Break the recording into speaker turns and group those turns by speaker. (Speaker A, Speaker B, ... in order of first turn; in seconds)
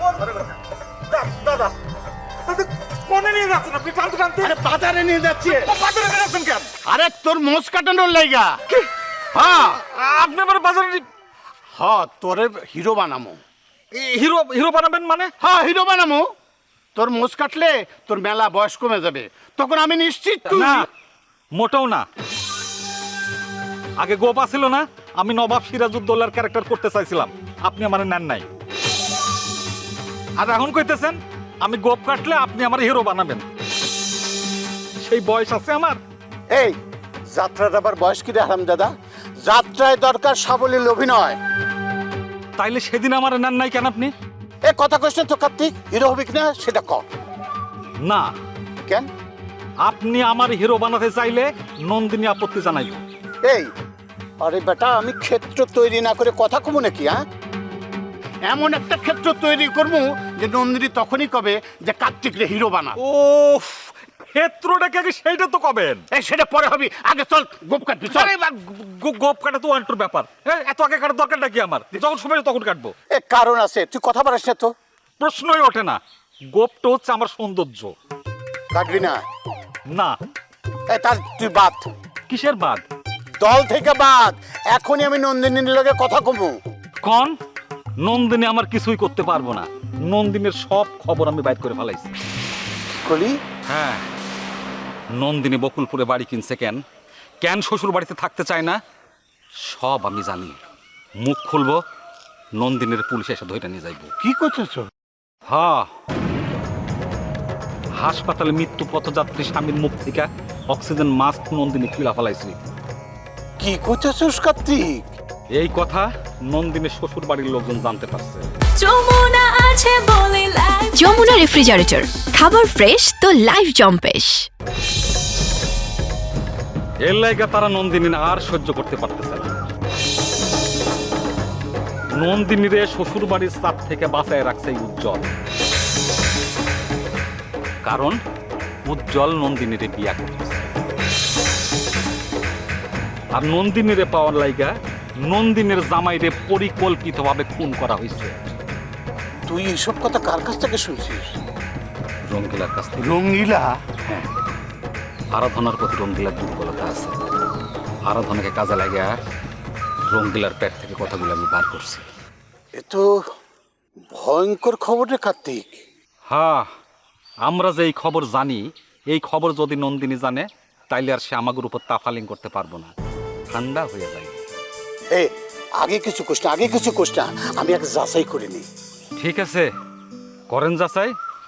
Speaker A: 1.1-1.7, 2.5-4.5, 5.5-6.7, 9.5-11.1, 13.9-15.3, 20.5-20.9, 21.5-22.1, 24.0-28.4, 30.4-33.5, 35.0-36.0, 42.5-44.1, 48.0-48.3, 49.8-53.0, 63.0-66.0, 68.1-72.9, 75.2-76.0, 76.5-77.9, 79.9-80.2, 82.3-82.8, 87.0-87.3, 88.0-92.1, 93.7-94.0, 95.1-96.8, 97.4-98.8, 99.7-100.6, 101.2-101.8, 102.6-104.1, 105.5-105.9, 108.0-112.6, 115.5-118.5, 127.0-129.5, 132.2-135.3, 137.8-138.2, 138.8-140.7, 143.3-148.6, 152.3-153.1, 155.3-157.2, 158.1-159.1, 160.1-162.1, 166.3-166.7, 167.4-172.9, 173.5-174.4, 179.2-179.7, 180.5-181.1
Speaker B: 4.4-5.7, 6.8-8.6, 9.3-9.8, 11.7-13.4, 15.4-16.2, 16.9-20.8, 36.5-36.7, 37.3-41.4, 44.6-47.0, 54.4-57.1, 58.5-63.0, 66.1-68.3, 73.1-74.7, 78.7-79.2, 80.9-81.8, 83.4-86.5, 93.0-93.4, 104.2-104.8, 113.6-115.0, 149.5-151.3, 153.0-153.7, 162.8-163.0, 164.1-165.8, 175.1-178.7
Speaker C: 118.8-121.1
Speaker D: 120.9-124.5